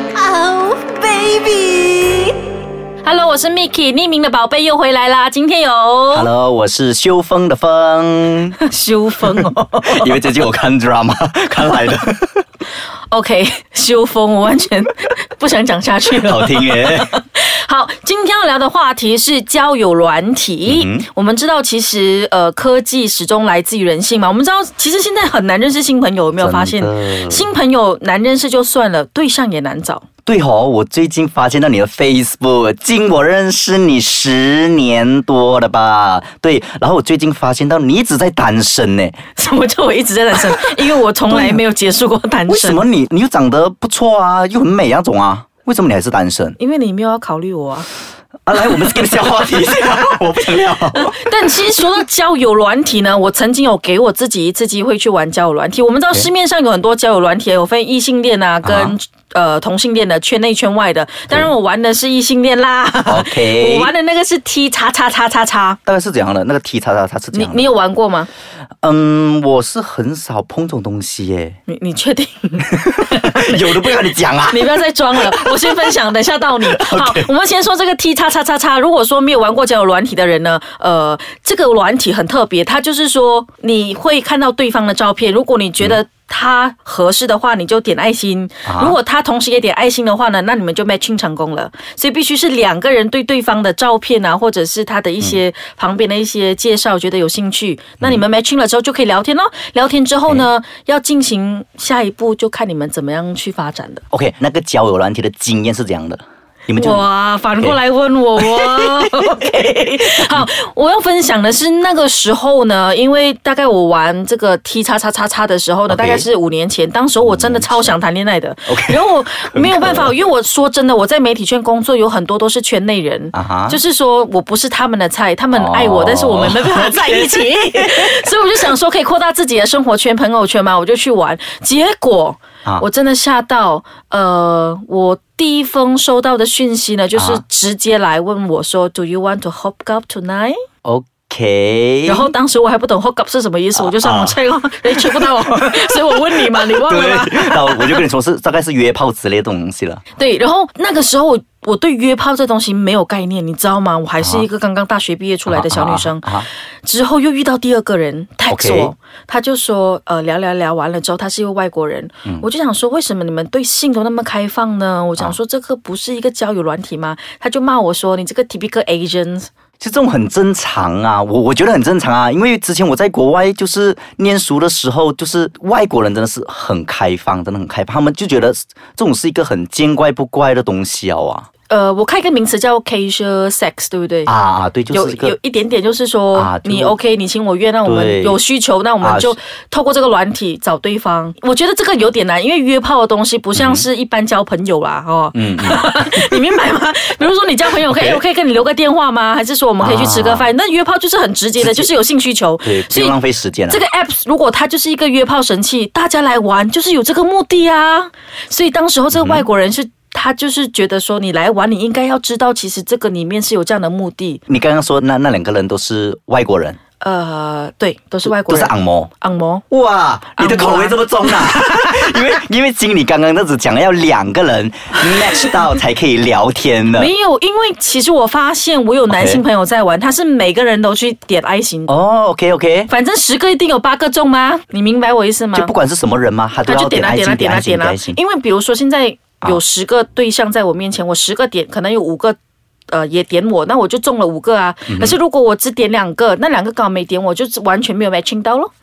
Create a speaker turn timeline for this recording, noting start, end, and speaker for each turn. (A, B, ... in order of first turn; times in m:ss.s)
0:00.1-0:02.3 A
0:03.0-0:06.3 A
0:06.1-0:08.6 B
0:08.6-0:10.2 A
0:09.2-0:12.4 B
0:13.1-0:30.0 A
0:16.2-0:17.2 B
0:20.7-0:21.1 B
0:26.4-0:27.5 B
0:30.3-0:39.2 B
0:39.4-0:42.9 A
0:41.3-0:41.6 B
0:42.5-0:46.6 B
0:46.6-0:47.9 A
0:48.5-0:51.6 B
0:50.9-1:05.8 A
0:58.6-0:59.0 B
1:03.1-1:03.9 B
1:05.9-1:07.7 B
1:07.3-1:08.3 A
1:08.8-1:11.6 B
1:11.7-1:44.0 A
1:12.6-1:15.9 B
1:16.6-1:17.3 B
1:28.6-1:29.0 B
1:44.1-1:47.1 B
1:46.8-2:20.6 A
1:48.4-1:50.5 B
1:55.9-1:56.3 B
1:57.2-1:57.9 B
1:58.7-2:00.1 B
2:03.3-2:03.8 B
2:05.5-2:08.3 B
2:17.2-2:17.4 B
2:20.8-2:22.3 B
2:22.1-2:28.0 A
2:23.8-2:24.4 B
2:24.9-2:30.0 B
2:30.2-2:49.5 A
2:34.2-2:34.5 B
2:35.5-2:36.5 B
2:38.5-2:38.9 B
2:49.8-3:01.5 B
3:01.7-3:04.3 A
3:04.3-3:05.4 B
3:04.9-3:34.4 A
3:06.4-3:07.0 B
3:07.8-3:08.4 B
3:09.0-3:09.4 B
3:13.6-3:13.8 B
3:15.3-3:16.4 B
3:17.8-3:18.2 B
3:19.8-3:20.5 B
3:21.6-3:21.9 B
3:22.6-3:23.8 B
3:29.1-3:29.5 B
3:34.5-3:36.8 B
3:37.0-3:39.6 A
3:38.2-3:39.1 B
3:39.7-3:47.1 B
3:40.4-3:42.2 A
3:46.9-3:51.9 A
3:49.1-3:49.4 B
3:51.9-3:52.9 B
3:52.9-3:55.7 A
3:55.5-3:58.2 B
3:56.7-4:02.4 A
4:02.9-4:08.7 A
4:04.9-4:05.2 B